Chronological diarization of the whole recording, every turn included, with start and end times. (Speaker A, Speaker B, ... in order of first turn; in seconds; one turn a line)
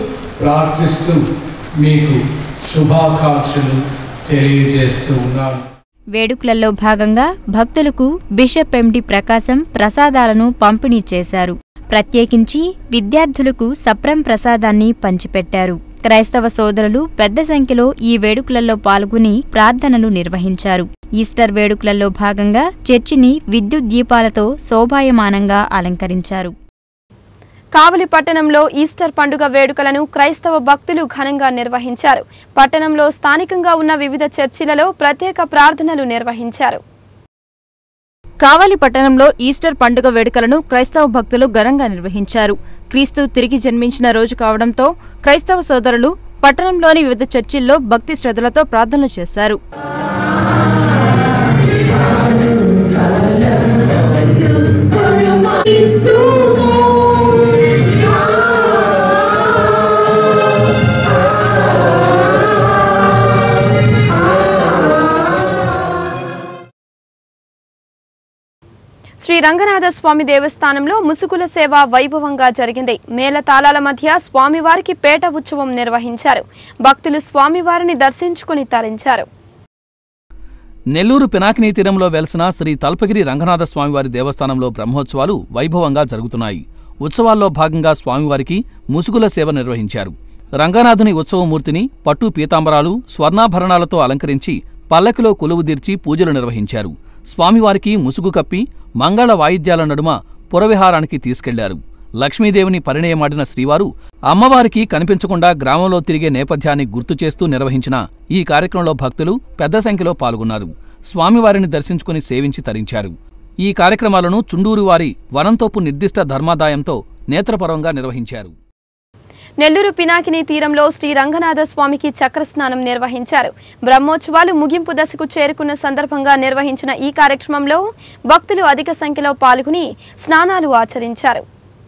Speaker A: 0.4-1.2
Speaker A: 1.8-2.2
Speaker A: 2.7-5.6
Speaker B: 6.2-26.6
Speaker C: 27.8-36.8
Speaker D: 38.4-49.6
Speaker C: 69.2-79.2
Speaker E: 80.9-118.5
Speaker C: 119.6-131.4